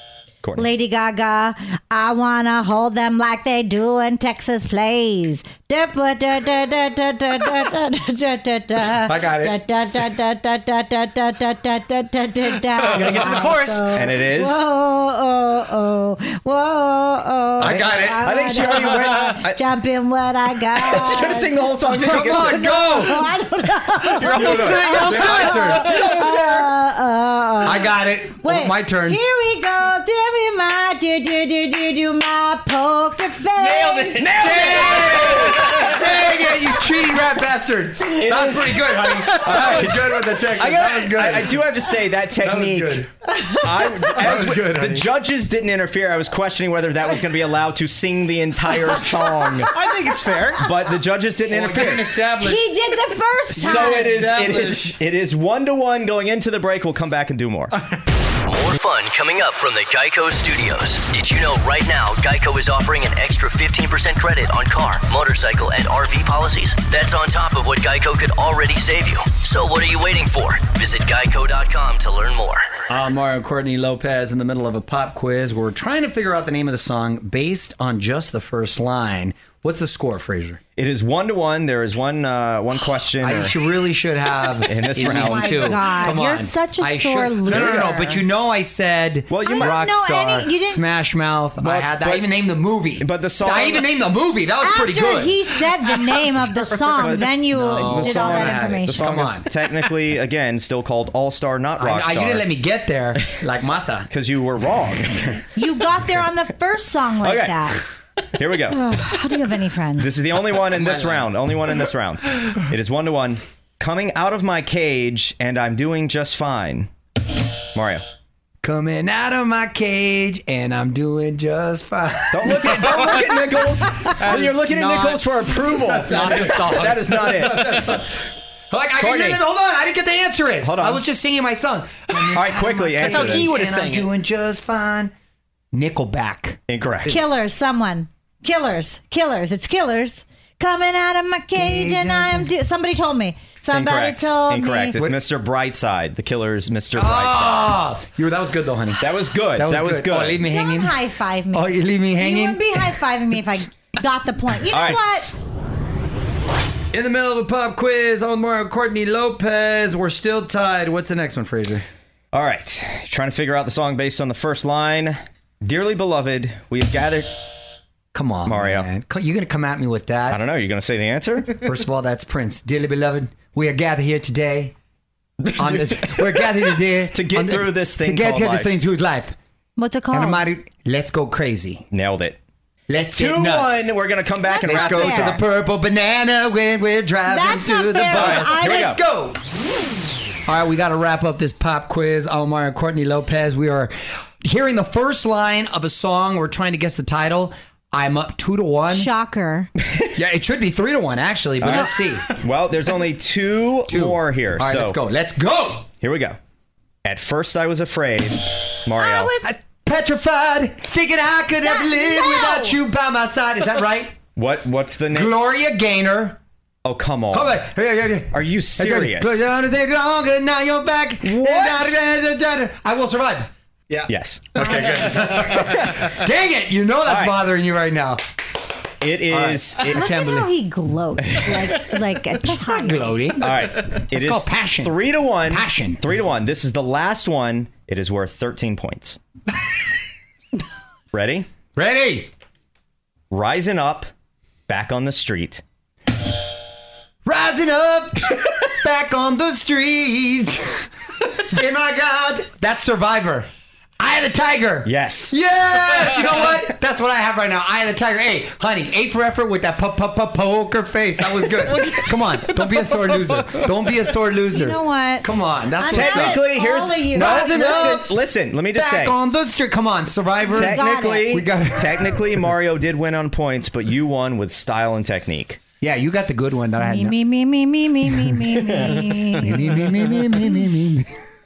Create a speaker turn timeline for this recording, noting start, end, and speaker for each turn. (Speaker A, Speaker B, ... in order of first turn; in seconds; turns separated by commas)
Speaker A: 0.4-0.7, Speaker B: 0.6-34.5, Speaker C: 9.1-9.6, Speaker D: 12.8-13.9, Speaker A: 13.9-14.7, Speaker C: 17.6-18.3, Speaker A: 17.7-19.6, Speaker A: 20.8-22.7, Speaker C: 22.0-23.3, Speaker D: 24.1-26.2, Speaker A: 24.2-26.6, Speaker C: 24.3-26.3, Speaker C: 27.6-29.2, Speaker D: 33.6-37.0, Speaker A: 34.2-35.8, Speaker C: 34.3-41.7, Speaker A: 38.1-49.9, Speaker C: 42.4-43.1, Speaker B: 43.3-43.9, Speaker C: 44.1-45.1, Speaker D: 49.7-50.7, Speaker A: 50.6-52.1, Speaker C: 51.5-52.7, Speaker B: 52.4-54.2, Speaker C: 53.5-54.9, Speaker A: 53.6-57.7, Speaker E: 58.4-72.7, Speaker C: 72.9-80.6, Speaker A: 80.8-83.5, Speaker C: 83.2-95.4, Speaker A: 84.7-86.0, Speaker B: 85.0-88.2, Speaker A: 87.5-88.3, Speaker A: 89.3-89.8, Speaker B: 89.4-90.8, Speaker A: 91.6-92.3, Speaker A: 93.0-93.9, Speaker B: 94.6-99.1, Speaker A: 96.4-102.5, Speaker C: 97.5-99.5, Speaker C: 101.8-104.1, Speaker A: 104.1-105.4, Speaker B: 105.6-107.8, Speaker A: 107.2-107.8, Speaker A: 108.3-108.9, Speaker B: 108.7-110.1, Speaker A: 110.0-116.9, Speaker C: 110.7-111.3, Speaker A: 117.7-118.0, Speaker C: 118.6-128.2, Speaker A: 122.3-128.0, Speaker D: 124.2-125.2, Speaker D: 126.0-127.9, Speaker C: 128.7-135.1, Speaker A: 129.0-129.4, Speaker A: 130.6-131.0, Speaker A: 132.3-133.6, Speaker D: 133.0-134.2, Speaker C: 135.7-136.6, Speaker A: 136.7-137.2, Speaker B: 137.1-145.0, Speaker C: 141.5-142.5, Speaker A: 143.7-147.8, Speaker C: 146.9-151.0, Speaker A: 149.0-150.4, Speaker B: 150.4-155.3, Speaker C: 151.5-152.9, Speaker A: 154.7-155.0, Speaker C: 156.9-161.8, Speaker A: 162.3-167.3, Speaker C: 168.1-170.4, Speaker A: 168.4-168.9, Speaker A: 170.3-171.7, Speaker C: 171.6-174.7, Speaker A: 175.4-176.5, Speaker C: 175.6-179.3, Speaker A: 177.1-178.7, Speaker B: 179.8-180.4, Speaker C: 180.1-181.9, Speaker A: 181.9-182.4, Speaker C: 182.9-183.9, Speaker A: 183.1-185.4, Speaker B: 184.4-185.4, Speaker C: 184.6-189.4, Speaker B: 187.3-188.9, Speaker A: 188.1-189.0, Speaker C: 190.5-199.1, Speaker B: 198.9-199.7, Speaker C: 200.1-202.3, Speaker A: 201.6-205.0, Speaker C: 203.9-205.9, Speaker A: 206.0-206.4, Speaker A: 207.0-209.3, Speaker B: 209.0-209.5, Speaker C: 209.4-214.2, Speaker B: 211.6-212.8, Speaker A: 214.3-215.3, Speaker C: 215.1-216.4, Speaker A: 216.8-217.6, Speaker C: 217.3-228.2, Speaker A: 218.3-219.5, Speaker A: 221.2-222.0, Speaker A: 224.1-224.8, Speaker B: 224.8-225.2, Speaker A: 227.1-227.4, Speaker A: 229.0-230.1, Speaker C: 229.3-230.5, Speaker B: 229.9-233.4, Speaker C: 232.4-233.5, Speaker A: 233.4-239.2, Speaker C: 234.1-234.9, Speaker C: 235.5-236.0, Speaker A: 241.1-241.5, Speaker C: 241.8-242.3, Speaker A: 243.3-244.1, Speaker A: 244.7-245.6, Speaker C: 247.2-266.5, Speaker A: 254.8-255.3, Speaker B: 264.5-268.0, Speaker A: 265.9-269.2, Speaker C: 267.1-268.1, Speaker C: 268.7-272.3, Speaker B: 270.4-271.4, Speaker A: 270.5-275.6, Speaker C: 275.8-277.2, Speaker B: 276.8-279.7, Speaker A: 278.6-279.2, Speaker C: 279.4-281.2